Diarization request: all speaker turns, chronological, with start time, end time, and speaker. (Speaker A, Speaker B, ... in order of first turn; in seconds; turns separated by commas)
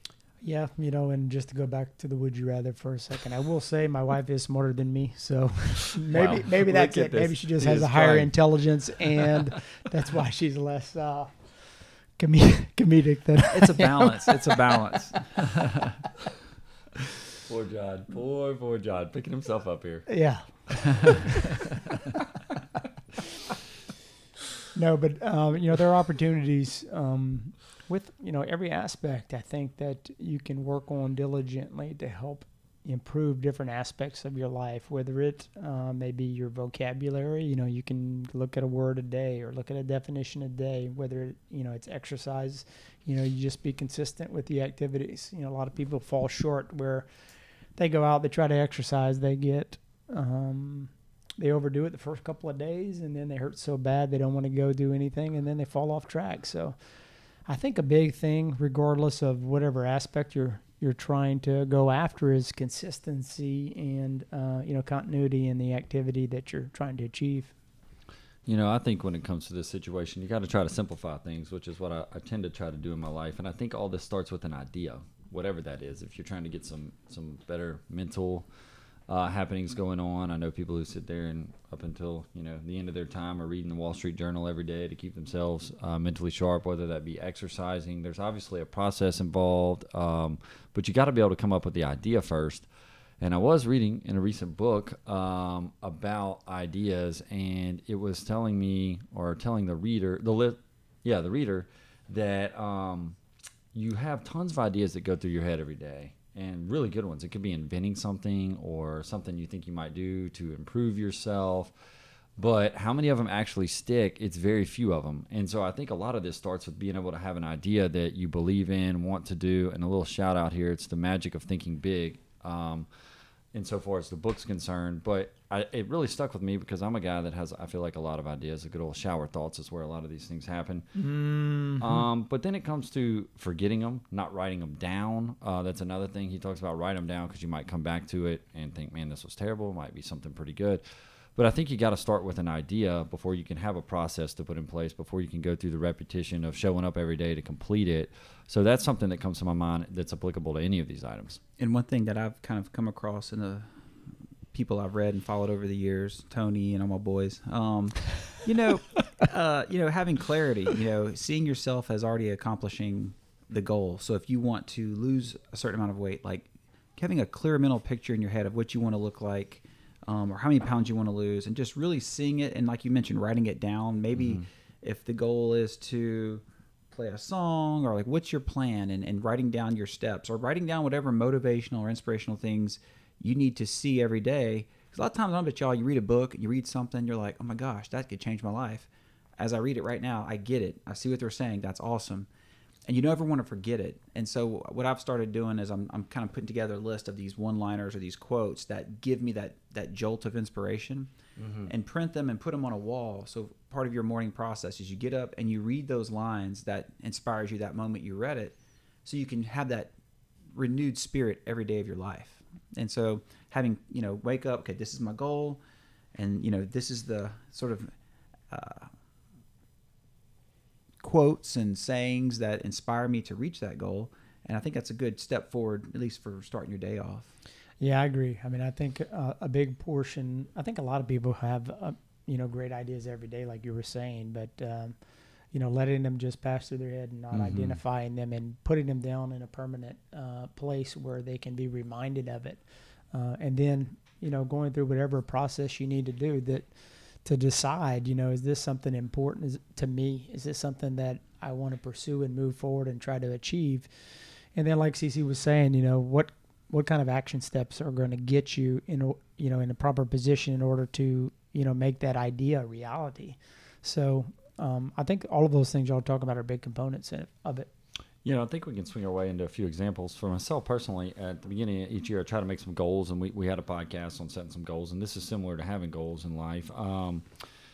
Speaker A: 0.4-14.6, Speaker B: 6.1-8.4, Speaker B: 9.1-9.6, Speaker C: 13.5-15.9, Speaker B: 17.4-20.2, Speaker A: 20.1-21.1, Speaker A: 24.8-47.1, Speaker A: 47.8-56.8, Speaker A: 57.4-67.5, Speaker B: 68.5-78.5, Speaker B: 79.1-92.7, Speaker B: 93.2-103.2, Speaker B: 103.7-111.7, Speaker B: 112.4-122.9, Speaker B: 123.5-131.0, Speaker C: 131.0-131.8, Speaker B: 131.8-151.4, Speaker C: 151.6-153.7, Speaker C: 154.5-192.3, Speaker B: 174.2-174.4, Speaker C: 192.9-201.1, Speaker B: 201.4-201.7, Speaker C: 201.7-209.9, Speaker C: 210.5-215.6, Speaker C: 216.2-217.9, Speaker C: 218.5-218.9, Speaker C: 221.0-227.3, Speaker A: 227.8-235.0, Speaker A: 235.5-267.7, Speaker B: 237.3-237.8, Speaker B: 268.2-277.5